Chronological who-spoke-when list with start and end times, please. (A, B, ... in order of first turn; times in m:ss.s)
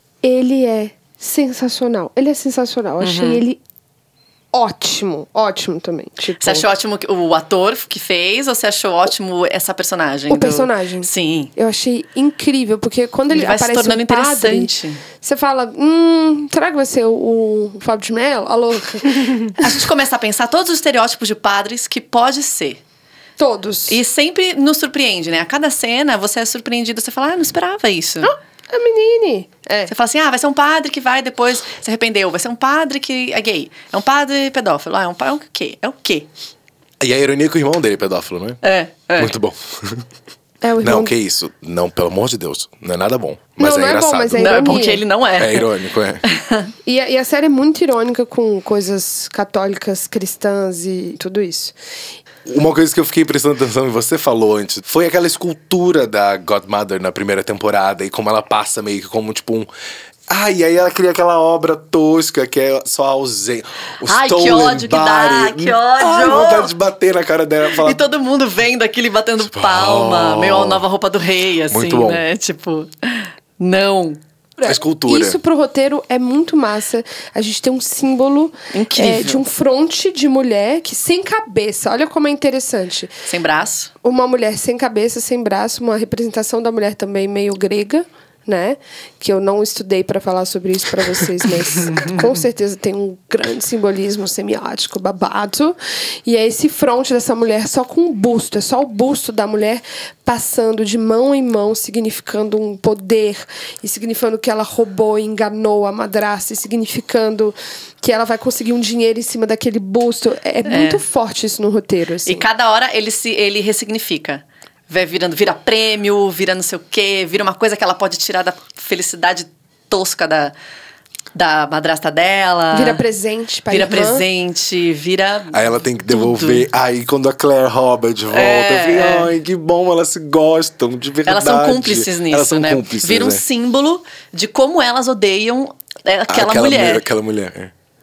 0:00.2-0:03.6 A
0:03.0-0:03.4 B
0:04.5-0:06.6 A
0:06.4-0:11.5 B
0:10.3-0:19.7 A
0:13.3-0:15.0 B
0:19.5-0:22.8 B
0:23.4-0:24.0 A
0:23.9-0:28.3 B
0:28.2-0:29.9 A
0:29.9-0:36.3 B
0:37.0-0:38.6 C
0:38.6-0:39.3 B
0:39.2-0:40.0 C
0:40.6-0:41.1 A
0:40.8-0:44.8 C
0:43.6-0:45.0 A
0:44.4-0:45.7 B
0:45.4-0:46.2 C
0:46.2-0:46.7 B
0:46.8-0:51.7 A
0:52.4-0:59.7 C
1:00.3-1:08.0 C
1:04.0-1:06.7 B
1:07.7-1:14.2 B
1:09.4-1:10.8 C
1:11.7-1:12.2 C
1:14.6-1:23.1 A
1:14.6-1:15.4 C
1:18.7-1:19.4 B
1:23.3-1:23.9 B
1:24.0-1:52.4 A
1:31.8-1:32.1 B
1:50.7-1:51.0 B
1:52.2-2:00.5 B
2:01.3-2:03.0 B
2:02.7-2:04.2 A
2:03.7-2:06.6 B
2:05.5-2:13.4 C
2:08.3-2:09.3 B
2:11.2-2:17.0 B
2:16.3-2:17.7 C